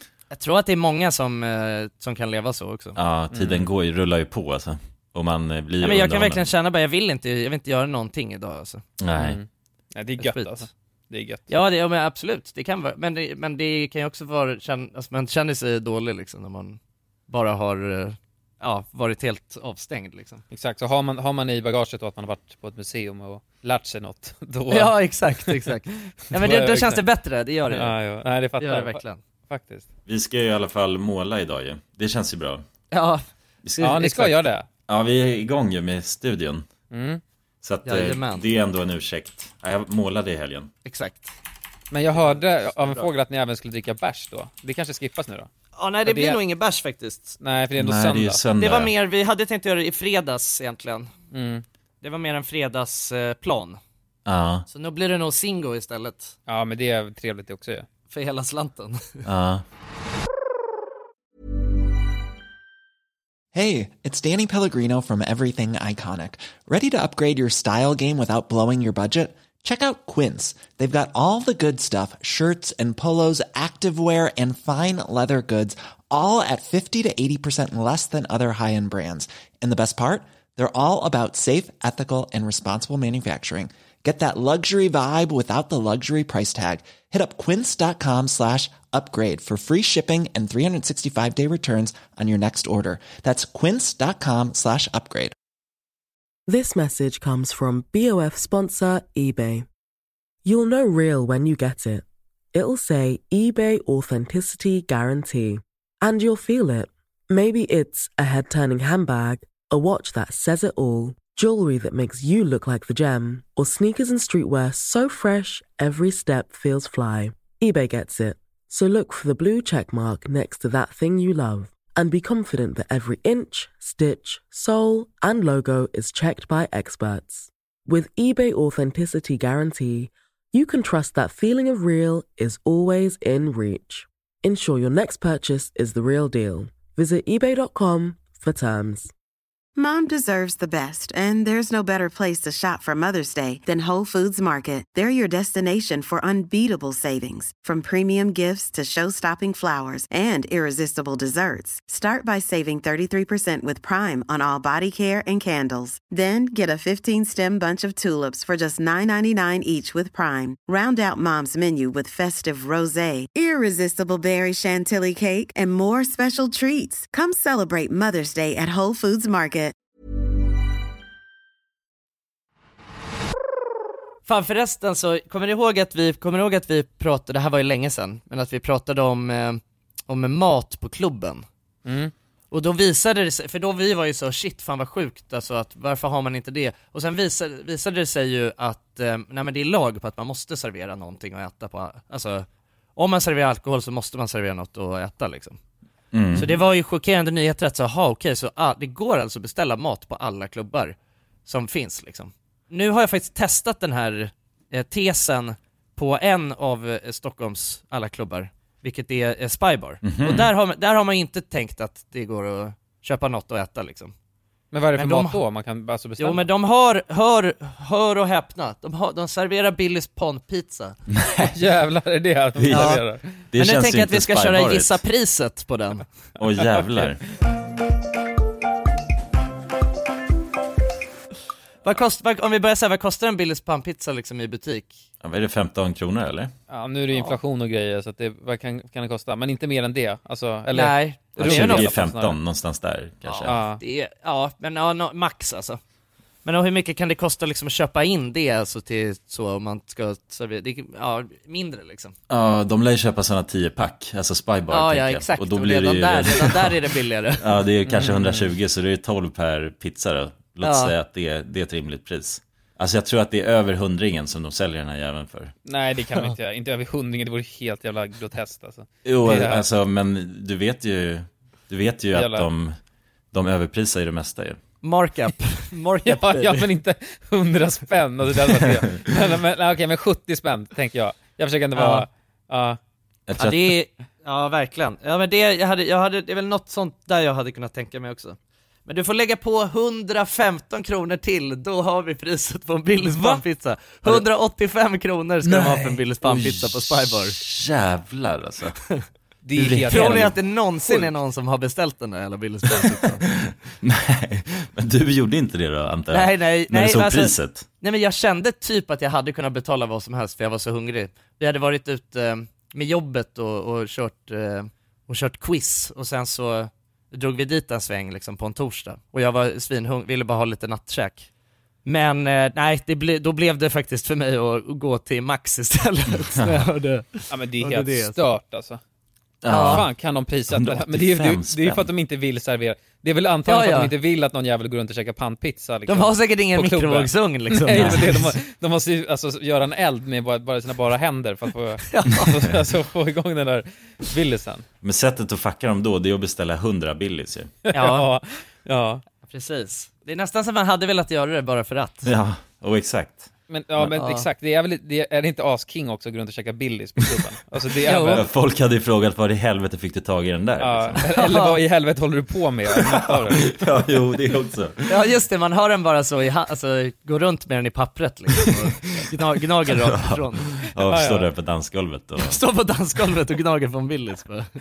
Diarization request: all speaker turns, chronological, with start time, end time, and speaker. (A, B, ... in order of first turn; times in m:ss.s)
0:00.3-0:03.0 A
0:02.9-0:06.4 B
0:03.3-0:03.7 C
0:05.8-0:08.8 A
0:09.0-0:09.4 B
0:09.2-0:11.5 C
0:10.2-0:10.7 A
0:11.5-0:20.4 A
0:20.5-0:25.7 C
0:24.7-0:27.9 A
0:26.3-0:27.0 C
0:27.7-0:29.9 C
0:28.6-0:29.2 A
0:30.1-0:32.6 B
0:32.9-0:33.2 A
0:33.6-0:34.1 B
0:33.8-0:34.3 A
0:33.8-0:34.7 C
0:34.9-0:36.6 B
0:36.9-0:37.2 C
0:37.6-0:40.7 B
0:37.8-0:38.5 A
0:40.8-0:41.4 A
0:41.9-0:45.5 C
0:42.2-0:43.1 A
0:45.8-0:47.4 A
0:46.0-0:46.4 C
0:47.4-0:48.4 C
0:47.8-0:48.9 B
0:48.6-0:51.1 A
0:51.3-0:51.6 C
0:52.0-0:53.8 A
0:54.2-0:54.6 B
0:54.7-0:56.3 A
0:56.5-0:57.9 C
0:58.1-0:59.2 A
0:59.2-0:59.6 B
1:03.5-1:35.3 D
1:36.5-1:39.6 E
1:40.4-2:19.1 E
2:19.8-2:49.7 F
2:54.3-3:01.4 A
3:01.8-3:02.1 C
3:02.5-3:12.4 A
3:13.0-3:15.6 A
3:16.1-3:16.6 B
3:16.3-3:20.9 A
3:21.4-3:34.1 A
3:30.0-3:30.5 B
3:34.7-3:36.4 C
3:35.0-3:35.4 A
3:36.2-3:41.0 A
3:41.1-3:41.6 B
3:41.5-3:43.3 C
3:42.6-3:45.0 B
3:42.7-3:43.0 A
3:43.6-3:46.1 A
3:46.4-3:47.2 B
3:46.8-3:47.0 C
3:51.8-3:55.0 A
3:55.2-3:56.5 B
3:56.7-4:02.4 C
4:00.7-4:01.9 A
4:01.4-4:03.6 B
4:03.2-4:05.8 A
4:03.4-4:03.8 C
4:06.4-4:12.1 A
4:12.3-4:16.8 B
4:14.7-4:17.5 A
4:17.4-4:25.5 B
4:17.8-4:18.5 C
4:20.6-4:20.9 A
4:25.6-4:29.6 C
4:29.0-4:32.8 B
4:32.1-4:32.5 C
4:33.3-4:34.6 B
4:34.8-4:36.7 A
4:36.0-4:42.8 C
4:41.8-4:42.1 A
4:43.3-4:43.8 B
4:43.4-4:57.4 A
4:53.1-4:53.4 C
4:55.4-4:58.8 B
4:59.4-5:00.3 C
4:59.6-5:03.2 A
4:59.6-5:00.3 B
5:00.8-5:01.1 C
5:03.1-5:07.6 B
5:06.1-5:21.3 A
5:21.8-5:28.2 A
5:26.3-5:26.7 B
5:27.3-5:28.8 C
5:29.4-5:29.9 B
5:29.4-5:29.8 A
5:29.5-5:44.6 C
5:30.5-5:31.9 B
5:33.4-5:33.9 A
5:35.9-5:38.3 A
5:37.7-5:38.1 B
5:41.9-5:42.5 A
5:44.8-5:47.5 B
5:47.7-5:49.0 C
5:47.7-5:48.1 A
5:49.2-5:52.1 A
5:52.0-5:53.3 B
5:53.5-5:58.2 C
5:53.9-5:54.3 A
5:57.8-5:58.2 A
5:58.1-6:01.0 B
6:00.6-6:03.4 C
6:01.0-6:01.6 A
6:02.8-6:05.0 B
6:04.9-6:10.5 A
6:08.4-6:08.7 B
6:09.7-6:12.4 B
6:10.8-6:11.3 C
6:12.2-6:14.5 A